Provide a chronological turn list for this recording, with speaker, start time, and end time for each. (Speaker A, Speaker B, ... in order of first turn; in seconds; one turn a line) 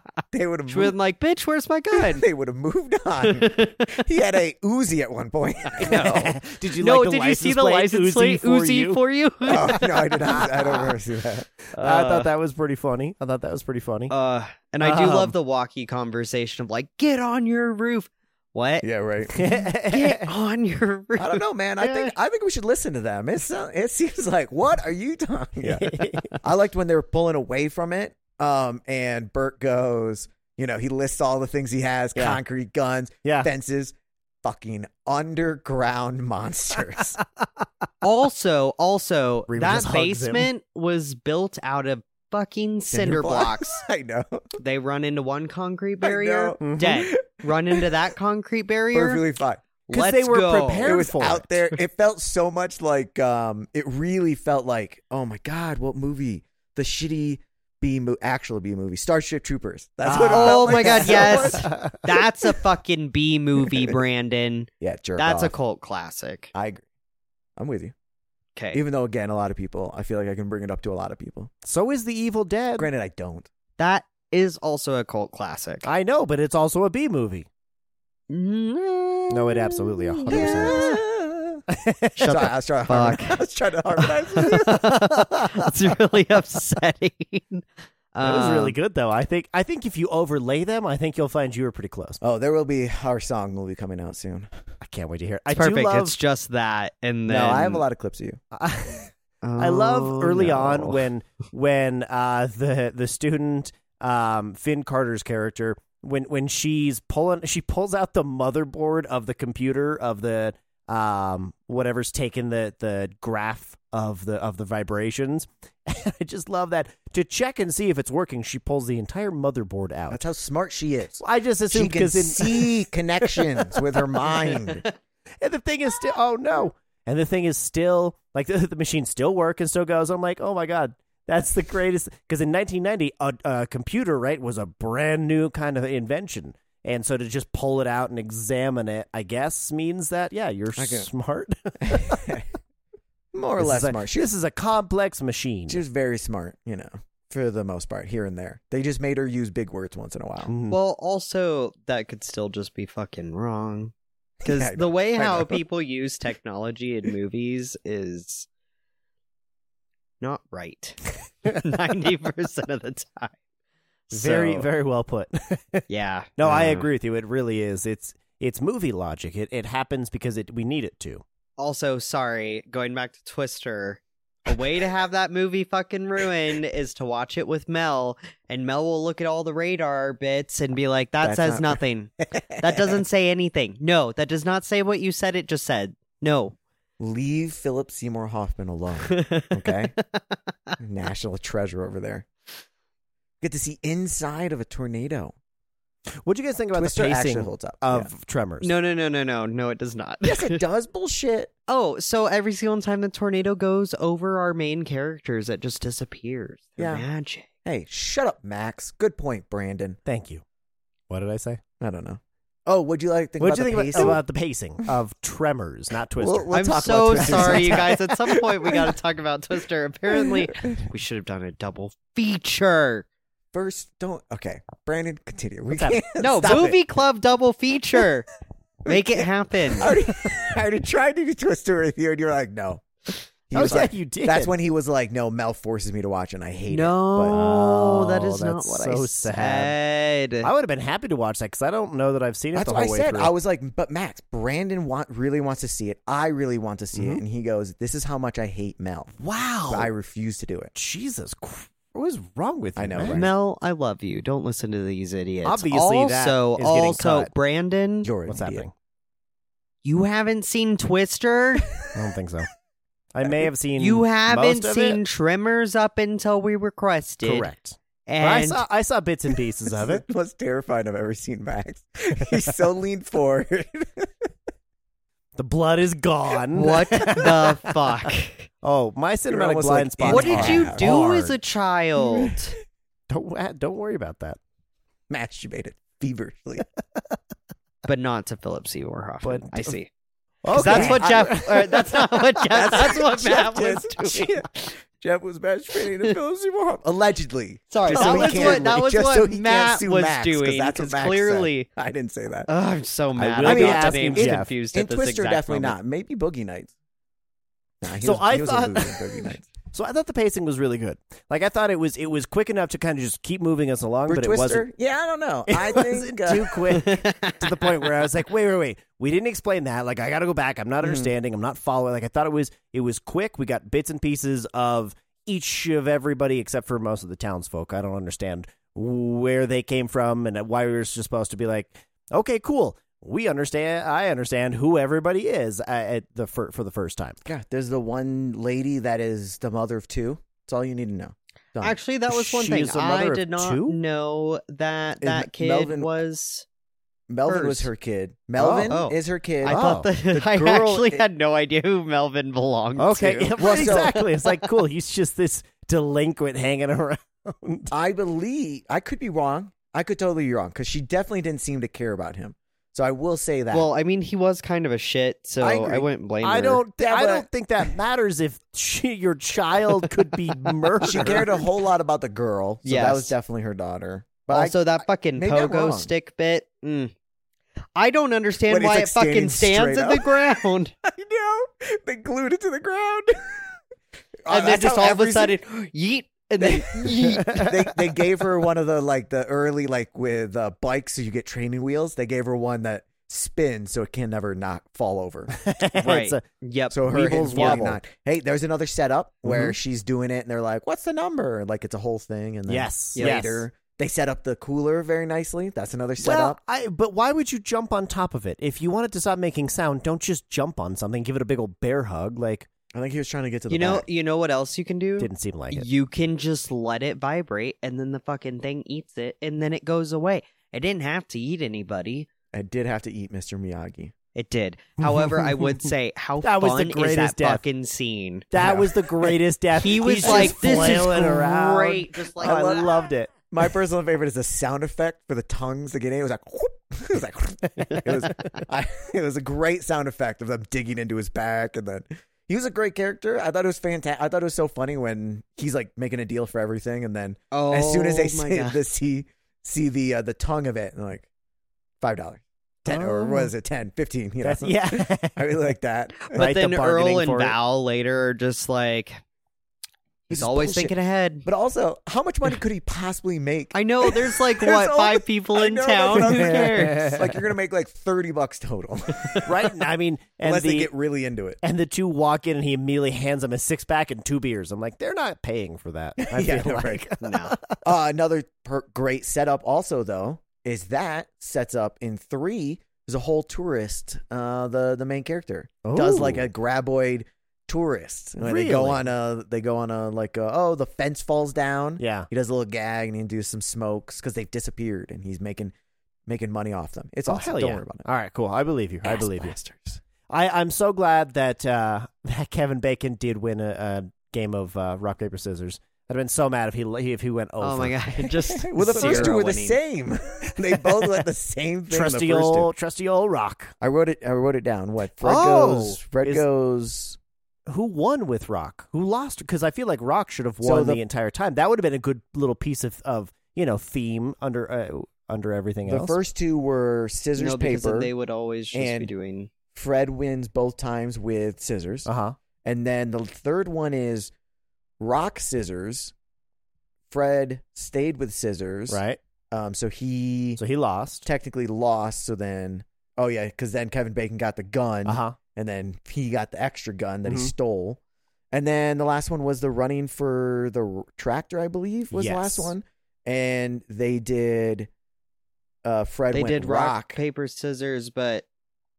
Speaker A: 0.3-1.0
Speaker B: 0.7-2.3
Speaker A: 1.9-6.3
Speaker B: 3.2-4.0
Speaker B: 5.7-10.9
Speaker C: 5.8-9.0
Speaker A: 9.5-11.5
Speaker B: 11.7-12.3
Speaker C: 11.7-14.1
Speaker B: 14.1-18.9
Speaker C: 14.8-15.3
Speaker A: 18.8-19.5
Speaker C: 19.3-20.3
Speaker B: 19.8-22.1
Speaker A: 21.2-37.2
Speaker C: 25.6-26.4
Speaker C: 32.1-32.4
Speaker C: 33.2-33.5
Speaker B: 38.0-43.8
Speaker C: 39.5-40.5
Speaker A: 42.9-44.5
Speaker B: 44.6-49.2
Speaker A: 46.0-47.9
Speaker C: 46.6-46.9
Speaker A: 48.9-49.6
Speaker B: 49.9-51.0
Speaker C: 49.9-51.6
Speaker A: 50.8-62.2
Speaker C: 60.0-62.1
Speaker B: 60.2-66.5
Speaker A: 63.7-64.0
Speaker A: 64.8-65.5
Speaker A: 66.5-66.9
Speaker A: 67.6-67.9
Speaker B: 68.6-68.8
Speaker A: 68.7-71.5
Speaker C: 71.6-72.9
Speaker A: 72.8-73.5
Speaker B: 73.8-75.9
Speaker C: 75.8-77.5
Speaker B: 78.3-81.0
Speaker C: 79.3-81.0
Speaker A: 80.3-81.6
Speaker C: 81.7-82.4
Speaker B: 82.2-83.4
Speaker A: 82.3-84.8
Speaker B: 84.0-88.8
Speaker C: 85.0-85.5
Speaker C: 88.2-92.2
Speaker A: 92.2-94.5
Speaker C: 94.8-96.2
Speaker B: 95.5-97.8
Speaker A: 97.3-98.4
Speaker C: 98.5-120.2
Speaker B: 99.4-101.1
Speaker A: 120.1-124.8
Speaker C: 121.2-123.8
Speaker B: 124.6-124.9
Speaker C: 125.4-142.4
Speaker A: 140.8-141.1
Speaker A: 141.8-142.5
Speaker A: 143.3-144.3
Speaker C: 143.6-145.8
Speaker A: 145.7-150.5
Speaker C: 150.5-150.8
Speaker B: 150.7-153.9
Speaker A: 154.4-155.6
Speaker B: 154.4-158.5
Speaker B: 160.2-163.4
Speaker B: 164.1-164.6
Speaker C: 164.1-165.8
Speaker B: 165.9-166.9
Speaker C: 166.4-171.2
Speaker B: 171.6-186.6
Speaker A: 181.2-183.0
Speaker A: 187.0-189.9
Speaker B: 189.1-190.8
Speaker A: 190.8-192.3
Speaker A: 193.4-195.3
Speaker C: 196.2-198.7
Speaker A: 196.8-198.1
Speaker B: 198.6-200.6
Speaker A: 200.2-201.5
Speaker B: 201.7-207.5
Speaker A: 206.8-207.1
Speaker A: 207.7-210.0
Speaker C: 210.1-210.4
Speaker C: 211.1-211.6
Speaker A: 211.8-214.2
Speaker C: 213.4-217.8
Speaker A: 216.2-218.9
Speaker B: 216.5-223.1
Speaker A: 220.1-220.5
Speaker A: 223.5-226.8
Speaker C: 225.7-226.0
Speaker B: 226.2-228.3
Speaker B: 228.8-229.9
Speaker A: 228.9-232.8
Speaker A: 233.5-237.4
Speaker C: 233.5-234.5
Speaker B: 236.7-240.5
Speaker C: 237.3-239.8
Speaker C: 240.4-243.3
Speaker A: 242.6-250.7
Speaker C: 246.9-247.2
Speaker C: 249.2-249.9
Speaker C: 250.7-253.3
Speaker A: 252.8-253.3
Speaker B: 253.1-258.1
Speaker C: 255.4-257.3
Speaker A: 258.0-258.7
Speaker C: 258.3-258.7
Speaker B: 259.9-261.7
Speaker C: 261.9-262.5
Speaker C: 263.1-265.0
Speaker B: 263.8-267.5
Speaker C: 267.2-270.0
Speaker B: 268.1-268.6
Speaker A: 269.7-274.3
Speaker C: 275.4-278.1
Speaker B: 276.6-278.5
Speaker C: 278.6-281.3
Speaker A: 279.3-281.0
Speaker B: 280.1-282.6
Speaker A: 282.0-282.4
Speaker C: 283.1-284.4
Speaker A: 285.1-286.6
Speaker B: 287.9-289.9
Speaker C: 289.2-289.8
Speaker C: 290.4-292.5
Speaker B: 290.5-294.5
Speaker A: 290.6-291.4
Speaker A: 292.5-302.5
Speaker B: 297.7-301.7
Speaker C: 297.9-298.8
Speaker B: 302.5-305.8
Speaker C: 303.2-304.5
Speaker A: 303.4-306.7
Speaker A: 307.8-309.5
Speaker C: 308.0-314.7
Speaker A: 314.1-316.6
Speaker C: 315.5-337.2
Speaker B: 316.7-317.6
Speaker A: 320.8-321.1
Speaker A: 337.2-341.8
Speaker B: 341.6-346.5
Speaker C: 342.1-343.8
Speaker A: 345.0-345.9
Speaker A: 347.1-351.0
Speaker B: 347.3-347.7
Speaker C: 348.4-348.7
Speaker B: 348.7-354.5
Speaker C: 349.5-349.9
Speaker C: 352.8-357.7
Speaker A: 353.4-354.0
Speaker A: 357.7-363.7
Speaker B: 363.5-366.6
Speaker A: 365.4-365.8
Speaker C: 366.2-371.3
Speaker A: 366.8-367.3
Speaker A: 370.8-375.9
Speaker B: 370.9-371.4
Speaker B: 372.6-373.1
Speaker B: 374.3-376.9
Speaker B: 377.8-380.7
Speaker A: 378.5-383.4
Speaker A: 384.2-385.4
Speaker B: 384.3-387.6
Speaker A: 386.4-395.3
Speaker C: 387.1-387.5
Speaker C: 395.3-396.2
Speaker B: 395.8-397.6
Speaker A: 396.7-406.4
Speaker C: 396.9-397.8
Speaker C: 399.2-399.6
Speaker C: 402.5-403.5
Speaker B: 402.9-403.3
Speaker C: 406.0-412.5
Speaker A: 412.7-413.9
Speaker B: 413.5-422.1
Speaker C: 415.0-415.7
Speaker A: 422.3-423.9
Speaker B: 424.1-432.7
Speaker C: 424.8-425.7
Speaker C: 426.2-427.4
Speaker C: 428.3-433.1
Speaker A: 430.0-430.4
Speaker A: 432.2-432.7
Speaker A: 433.3-451.1
Speaker B: 437.7-438.4
Speaker B: 447.3-448.6
Speaker A: 451.8-456.2
Speaker C: 452.7-453.3
Speaker C: 454.2-455.4
Speaker B: 456.1-459.0
Speaker C: 456.1-457.4
Speaker A: 460.1-469.3
Speaker B: 460.1-461.3
Speaker B: 463.5-467.0
Speaker C: 466.0-467.1
Speaker B: 469.0-469.3
Speaker C: 469.2-470.7
Speaker A: 470.2-471.4
Speaker C: 471.4-477.6
Speaker A: 476.0-477.0
Speaker B: 477.0-477.4
Speaker A: 477.5-495.5
Speaker C: 485.6-486.3
Speaker C: 488.2-488.8
Speaker C: 491.8-492.1
Speaker A: 496.1-497.9
Speaker C: 497.1-499.4
Speaker A: 498.8-499.8
Speaker C: 500.1-507.9
Speaker B: 507.4-509.6
Speaker A: 508.0-512.5
Speaker C: 508.6-509.2
Speaker C: 511.7-513.5
Speaker A: 513.6-517.0
Speaker C: 515.0-516.2
Speaker C: 517.5-526.0
Speaker A: 520.4-520.8
Speaker A: 525.7-527.9
Speaker B: 527.2-529.3
Speaker A: 528.5-528.9
Speaker A: 529.5-531.9
Speaker C: 531.9-532.2
Speaker A: 532.4-534.1
Speaker A: 534.8-535.9
Speaker A: 536.9-538.8
Speaker C: 538.7-539.0
Speaker A: 539.3-540.4
Speaker C: 540.4-541.1
Speaker A: 541.0-547.8
Speaker C: 544.9-545.2
Speaker C: 547.0-547.3
Speaker A: 548.3-554.7
Speaker C: 551.9-552.5
Speaker A: 555.6-557.0
Speaker B: 556.1-558.2